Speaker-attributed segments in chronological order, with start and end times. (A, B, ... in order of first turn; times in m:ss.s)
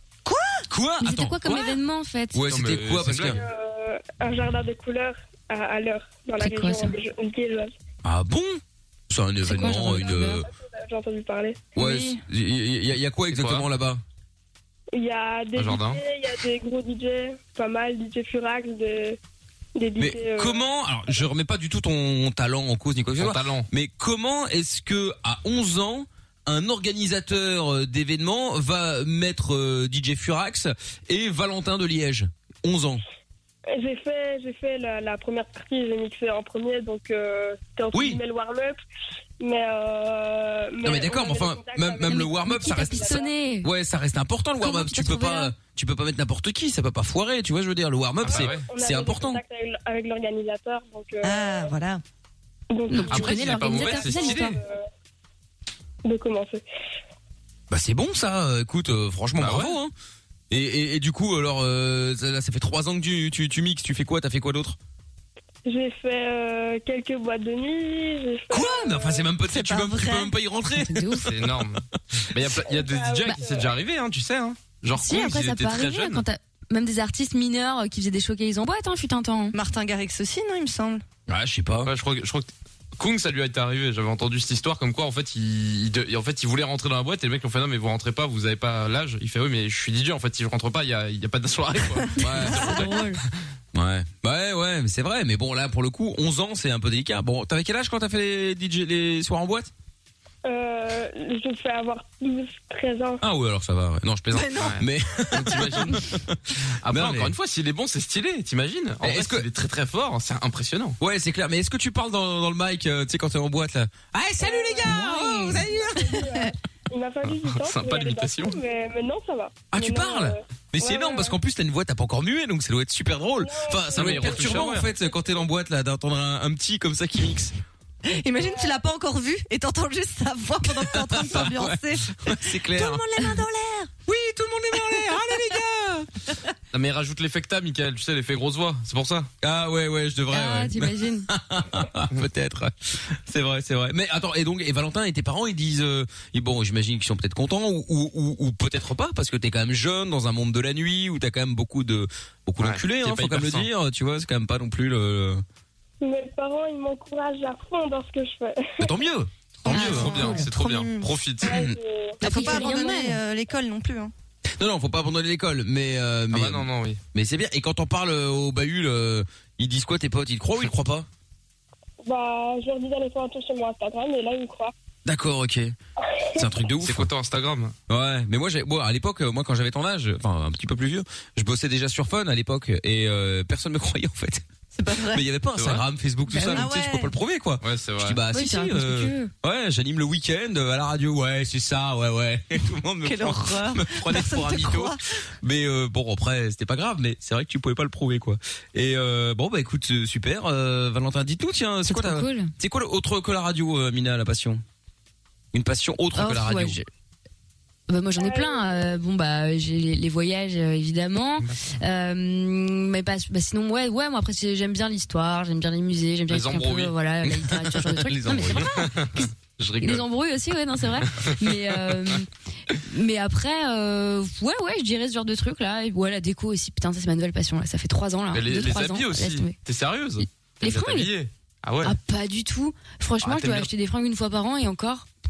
0:00.2-0:00.6 A
0:00.7-0:01.8 B
0:01.0-0:02.4 C
0:02.3-0:03.4 B
0:02.5-0:03.4 D
0:03.3-0:07.7 E
0:06.4-0:06.9 C
0:08.0-0:10.5 B
0:09.4-0:10.4 C
0:09.9-0:11.6 E
0:11.7-0:14.0 B
0:11.8-0:12.2 C
0:13.3-0:13.6 D
0:14.9-0:19.2 E
0:15.6-0:16.0 D
0:19.8-0:20.6 E
0:20.0-0:33.0 B
0:23.2-0:23.7 D
0:33.7-0:38.8 E
0:37.9-0:38.2 B
0:39.4-0:43.3 E
0:40.8-0:49.4 B
0:42.1-0:43.7 C
0:44.6-0:45.5 C
0:48.2-0:48.7 D
0:48.3-0:51.7 E
0:51.2-0:52.0 A
0:52.7-0:54.8 E
0:52.9-0:54.6 C
0:53.1-0:54.5 D
0:56.0-0:56.6 E
0:57.7-0:59.9 B
0:59.4-0:59.8 D
1:00.5-1:04.8 B
1:05.6-1:09.3 E
1:08.5-1:11.5 B
1:09.5-1:10.3 A
1:10.8-1:11.3 C
1:11.2-1:16.2 D
1:12.6-1:13.8 E
1:14.9-1:19.5 C
1:19.5-1:21.0 A
1:21.3-1:21.9 B
1:21.8-1:33.0 D
1:32.2-1:32.9 B
1:32.4-1:33.2 C
1:33.7-1:39.7 B
1:40.4-1:43.2 E
1:43.2-1:46.4 B
1:44.3-1:45.6 A
1:44.6-1:46.0 D
1:46.8-1:51.0 D
1:46.9-1:47.3 B
1:49.0-1:49.5 B
1:51.0-1:55.8 B
1:54.4-1:54.9 E
1:54.5-1:56.5 A
1:55.5-2:01.4 E
1:57.2-1:58.6 D
1:59.7-2:07.5 B
2:03.4-2:04.7 E
2:04.0-2:04.9 D
2:08.0-2:13.9 A
2:08.4-2:08.8 E
2:10.7-2:13.0 B
2:14.0-2:16.1 B
2:16.7-2:19.3 D
2:19.4-2:35.4 B
2:20.3-2:21.3 C
2:32.6-2:33.7 D
2:36.0-2:39.0 E
2:38.8-2:40.4 B
2:39.6-2:41.1 A
2:39.6-2:41.5 D
2:39.7-2:40.4 C
2:41.4-2:41.8 B
2:41.4-2:42.6 E
2:42.2-2:44.1 A
2:42.2-2:43.2 C
2:44.6-2:51.1 B
2:46.3-2:47.0 D
2:52.0-2:54.7 E
2:55.0-2:55.7 B
2:56.2-2:56.4 E
2:56.3-2:57.1 B
2:56.8-2:57.7 D
2:57.9-3:04.4 B
3:04.7-3:05.2 A
3:05.0-3:24.6 B
3:05.6-3:05.8 D
3:06.3-3:06.6 C
3:06.4-3:07.1 A
3:07.6-3:08.2 D
3:08.3-3:09.3 C
3:13.0-3:15.0 A
3:21.9-3:22.5 C
3:25.5-3:26.8 B
3:26.2-3:26.8 C
3:27.9-3:39.3 C
3:28.2-3:28.9 E
3:36.3-3:36.9 D
3:37.2-3:38.9 B
3:38.7-3:40.0 D
3:39.8-3:49.5 C
3:48.3-3:51.9 D
3:50.6-3:51.1 C
3:51.8-3:55.0 C
3:53.2-3:53.7 D